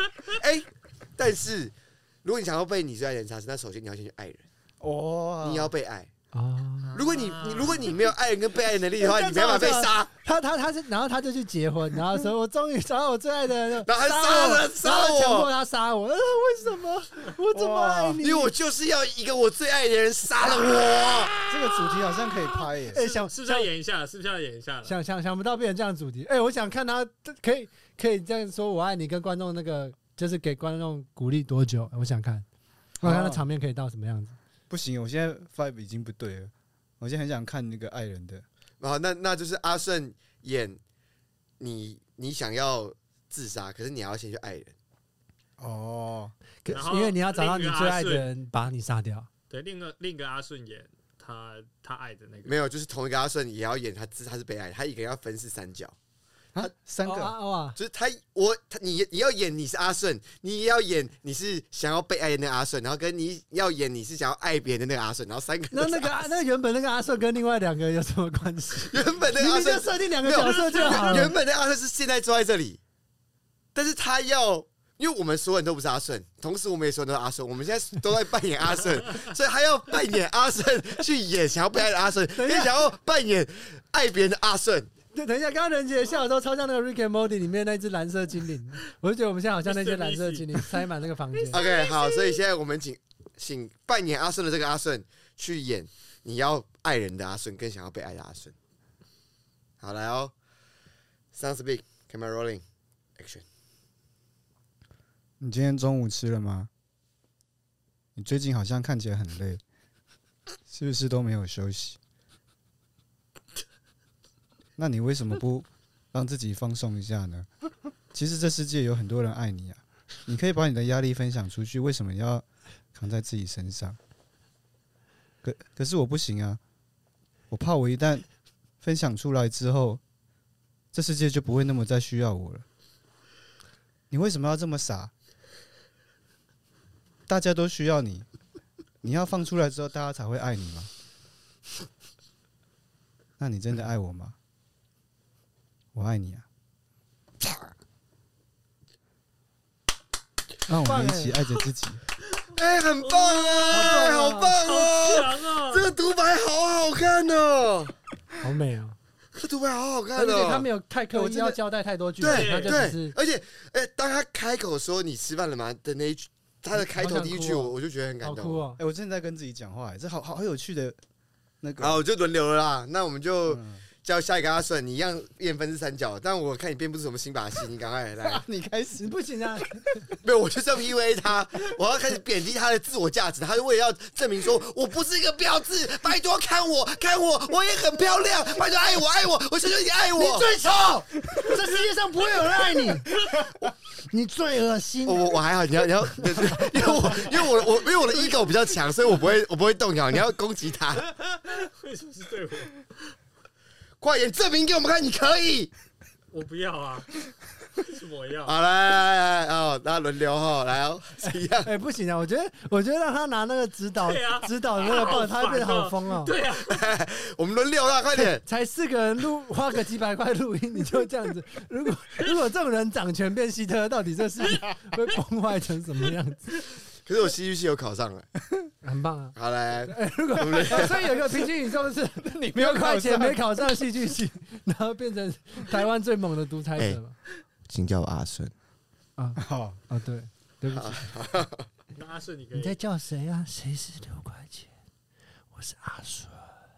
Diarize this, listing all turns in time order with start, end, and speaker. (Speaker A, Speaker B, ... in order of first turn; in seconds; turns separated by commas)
Speaker A: 0.3-4.4, Speaker B: 4.8-5.7, Speaker A: 5.4-6.1, Speaker C: 6.3-7.0, Speaker D: 6.8-8.1, Speaker A: 6.9-10.1, Speaker C: 9.0-18.5, Speaker A: 13.8-15.5, Speaker B: 17.5-18.2, Speaker A: 18.2-21.4, Speaker B: 21.5-23.0, Speaker C: 22.9-23.7, Speaker D: 22.9-24.9, Speaker C: 24.9-32.5, Speaker B: 33.0-33.4, Speaker C: 33.0-34.4, Speaker B: 34.7-38.4, Speaker A: 38.8-40.8, Speaker A: 41.6-44.7, Speaker B: 45.6-46.3, Speaker C: 46.6-49.3, Speaker D: 46.7-48.3, Speaker D: 49.5-52.6, Speaker A: 52.4-55.9, Speaker B: 56.5-57.3, Speaker C: 57.0-57.8, Speaker A: 57.7-66.3, Speaker C: 65.7-71.3, Speaker A: 68.8-72.8, Speaker D: 70.8-71.2, Speaker A: 73.7-84.9, Speaker C: 82.3-82.8, Speaker C: 85.1-91.6, Speaker D: 89.6-90.8, Speaker D: 91.5-92.4, Speaker A: 91.5-98.5, Speaker A: 99.8-100.3, Speaker A: 101.3-102.6, Speaker A: 103.2-103.4, Speaker B: 105.4-106.7, Speaker B: 108.2-109.6, Speaker B: 110.7-112.0, Speaker B: 114.8-117.5, Speaker B: 118.1-124.0, Speaker B: 125.4-126.6, Speaker B: 127.5-128.2, Speaker B: 128.8-130.0, Speaker B: 130.9-132.6, Speaker B: 134.1-135.1, Speaker B: 137.3-138.3, Speaker B: 139.0-140.9, Speaker B: 143.4-144.3, Speaker B: 145.9-146.4, Speaker B: 150.7-152.0, Speaker C: 150.7-151.4, Speaker A: 152.5-157.9, Speaker D: 153.0-155.9, Speaker C: 153.7-154.5, Speaker C: 158.4-158.9, Speaker A: 159.3-160.7, Speaker C: 160.1-163.2, Speaker B: 161.1-161.6, Speaker A: 162.2-168.6, Speaker D: 162.3-162.9, Speaker C: 166.7-168.8, Speaker B: 168.8-171.0, Speaker B: 171.6-172.0, Speaker A: 171.8-178.4, Speaker B: 173.5-173.8, Speaker B: 178.2-179.2, Speaker C: 179.0-179.9, Speaker A: 180.1-190.5, Speaker C: 190.1-193.1, Speaker C: 194.1-195.4, Speaker A: 195.1-201.1, Speaker C: 196.2-197.3, Speaker D: 201.3-202.8, Speaker A: 204.0-205.7, Speaker D: 206.3-207.1, Speaker D: 207.7-208.6, Speaker A: 208.4-211.7, Speaker C: 211.2-216.3, Speaker D: 214.0-216.9, Speaker A: 216.6-218.4, Speaker C: 218.2-226.6, Speaker A: 227.0-228.3, Speaker C: 228.8-237.2, Speaker A: 229.3-231.2, Speaker B: 232.2-233.8, Speaker A: 237.6-238.5, Speaker C: 239.2-241.1, Speaker B: 239.4-239.8, Speaker A: 240.7-241.7, Speaker D: 241.9-242.8, Speaker C: 242.5-244.7, Speaker C: 245.5-246.6